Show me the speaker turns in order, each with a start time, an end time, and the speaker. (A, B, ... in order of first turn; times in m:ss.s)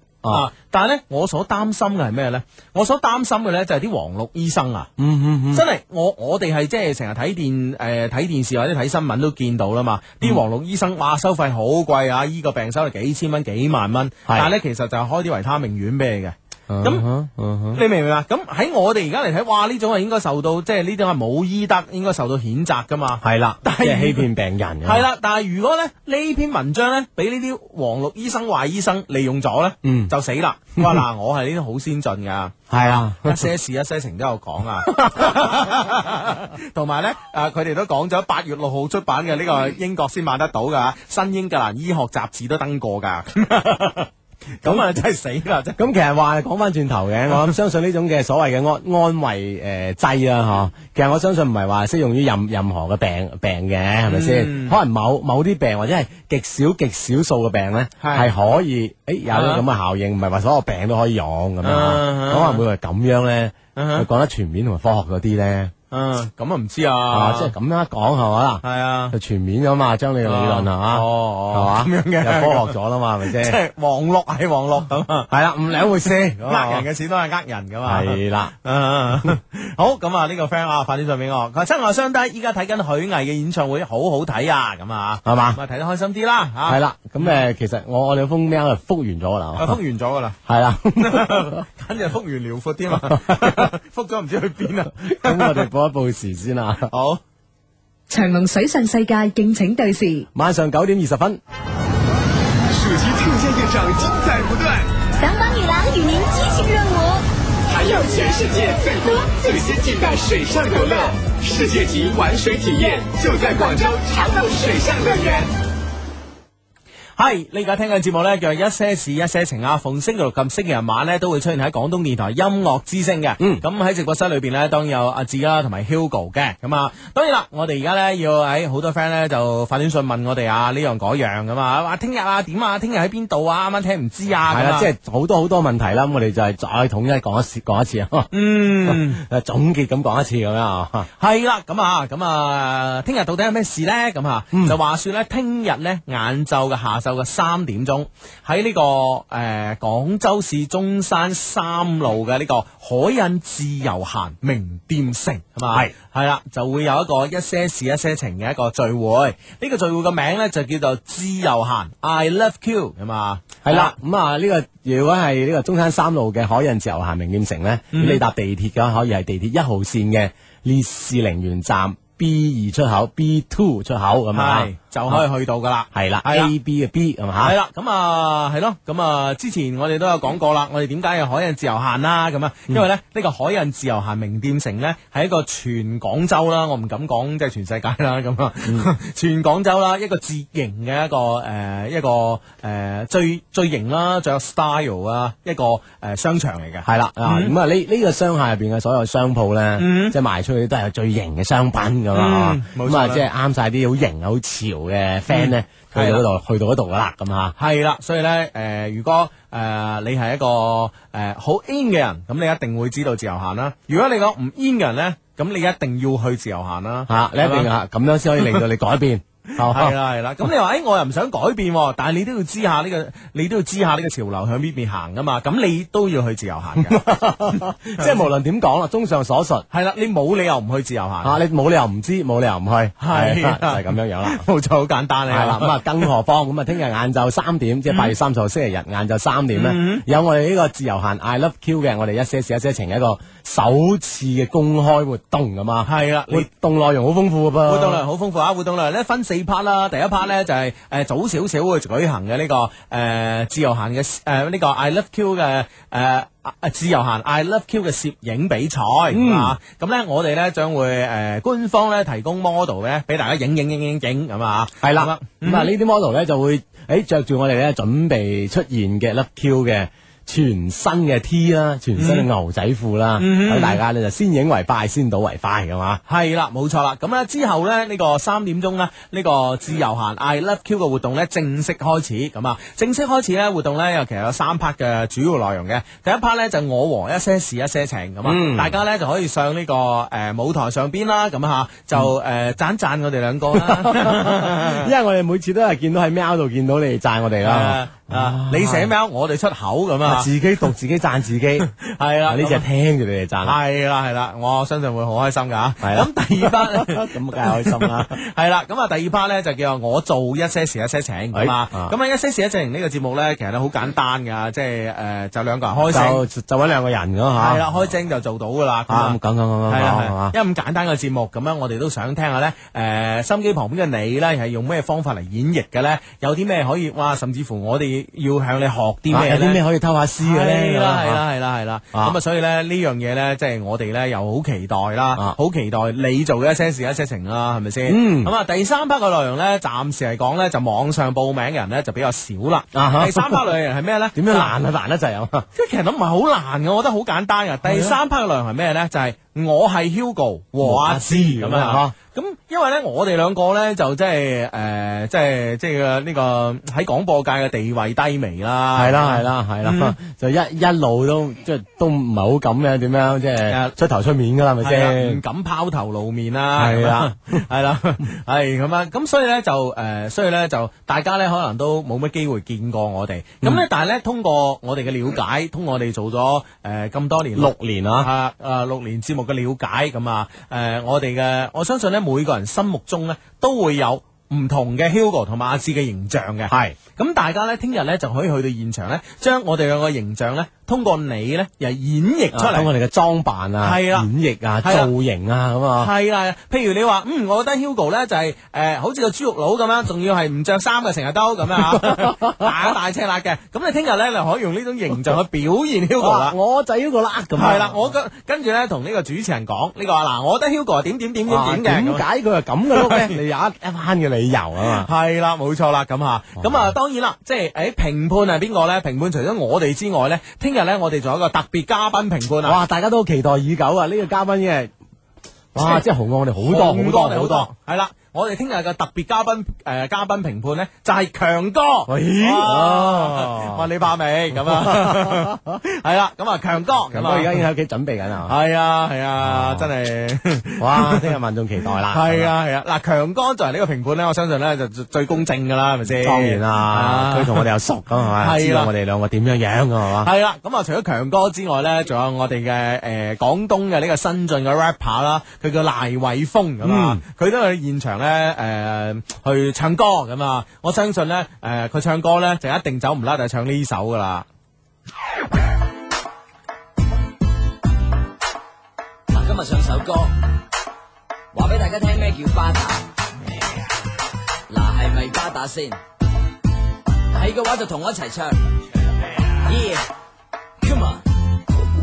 0:00.3-0:04.9 A
0:05.0-0:05.6 B
0:05.5-0:17.1 A
0:16.7-0:17.8 B
0:17.7-0:24.3 A
0:23.2-0:25.1 B
0:24.8-0:45.8 A
0:29.8-0:30.1 B
0:30.8-0:31.0 B
0:32.7-0:33.5 B
0:35.0-0:35.7 B
0:45.8-1:05.7 B
0:54.1-0:54.8 A
0:58.0-0:58.3 A
0:59.3-0:59.6 A
1:01.6-1:02.6 A
1:03.8-1:04.1 A
1:05.9-1:07.5 A
1:07.1-1:13.6 B
1:08.6-1:09.1 A
1:10.2-1:12.8 A
1:13.3-1:15.3 A
1:15.3-1:16.9 B
1:16.0-1:27.4 A
1:17.8-1:18.5 B
1:25.2-1:25.6 B
1:26.6-1:29.8 B
1:29.6-1:30.4 A
1:30.4-1:31.6 B
1:31.0-1:35.6 A
1:33.1-1:33.7 B
1:35.0-1:36.9 B
1:36.9-1:37.2 A
1:38.1-1:40.3 C
1:40.3-1:41.4 B
1:42.7-1:44.8 D
1:45.2-1:47.2 E
1:47.7-1:55.5 D
1:47.8-1:50.2 E
1:50.7-1:51.1 E
1:53.4-1:55.4 E
1:57.2-2:14.9 A
2:14.5-2:18.3 B
2:18.3-2:19.2 A
2:18.8-2:21.1 B
2:21.2-2:43.9 A
2:43.6-2:55.2 B
2:47.9-2:48.2 A
2:54.3-2:56.5 A
2:55.9-2:57.6 B
2:57.4-3:17.6 A
3:08.6-3:08.9 B
3:16.8-3:27.6 B
3:19.8-3:20.1 A
3:22.1-3:23.2 A
3:25.3-3:26.2 A
3:27.6-3:37.7 A
3:37.1-3:39.9 B
3:38.4-3:38.6 A
3:39.6-3:47.0 A
3:46.8-3:49.6 B
3:47.5-3:48.2 A
3:49.7-3:51.4 A
3:51.2-3:54.4 B
3:53.0-3:56.1 A
3:55.3-4:08.0 B
3:59.6-4:00.0 A
4:05.8-4:06.5 A
4:07.7-4:25.7 A
4:19.1-4:19.6 B
4:24.8-4:36.0 B
4:32.0-4:32.3 A
4:33.2-4:33.8 A
4:36.1-4:54.9 A
4:48.2-4:48.7 B
4:53.5-4:58.9 B
4:57.4-5:00.3 A
5:00.0-5:01.7 B
5:01.6-5:02.6 A
5:02.3-5:03.6 B
5:03.4-5:16.2 A
5:05.8-5:08.1 B
5:11.3-5:11.9 B
5:15.9-5:17.6 B
5:17.4-5:19.2 A
5:18.9-5:20.4 B
5:19.7-5:29.6 A
5:29.1-5:31.2 B
5:30.2-5:44.5 A
5:37.8-5:38.3 B
5:42.7-5:43.4 B
5:44.1-5:45.4 B
5:45.6-5:59.9 A
5:47.6-5:48.0 B
5:50.6-5:51.9 B
5:58.7-6:05.2 B
6:03.5-6:03.8 A
6:04.6-6:32.7 A
6:06.6-6:07.4 B
6:17.4-6:18.1 B
6:26.5-6:26.8 B
6:32.3-6:35.9 B
6:33.6-6:34.1 A
6:34.6-6:34.9 A
6:35.8-6:46.4 A
6:41.6-6:42.5 B
6:46.0-6:47.9 B
6:47.4-6:52.0 A
6:51.3-6:54.9 B
6:52.7-6:53.2 A
6:54.7-7:02.6 A
6:56.4-6:56.7 B
7:02.4-7:04.7 B
7:05.5-7:07.5 B
7:05.6-7:05.8 A
7:06.4-7:17.4 A
7:11.9-7:13.6 B
7:14.3-7:15.4 B
7:16.9-7:18.4 B
7:18.3-7:21.2 A
7:19.2-7:19.7 B
7:20.6-7:22.3 B
7:21.9-7:27.5 A
7:26.0-7:30.1 B
7:28.2-7:28.7 A
7:30.0-7:44.3 A
7:36.6-7:37.0 B
7:49.1-7:50.1 F
7:51.3-7:52.8 F
7:54.5-7:55.8 F
7:57.1-7:58.4 F
7:59.4-7:59.8 F
8:00.6-8:01.0 F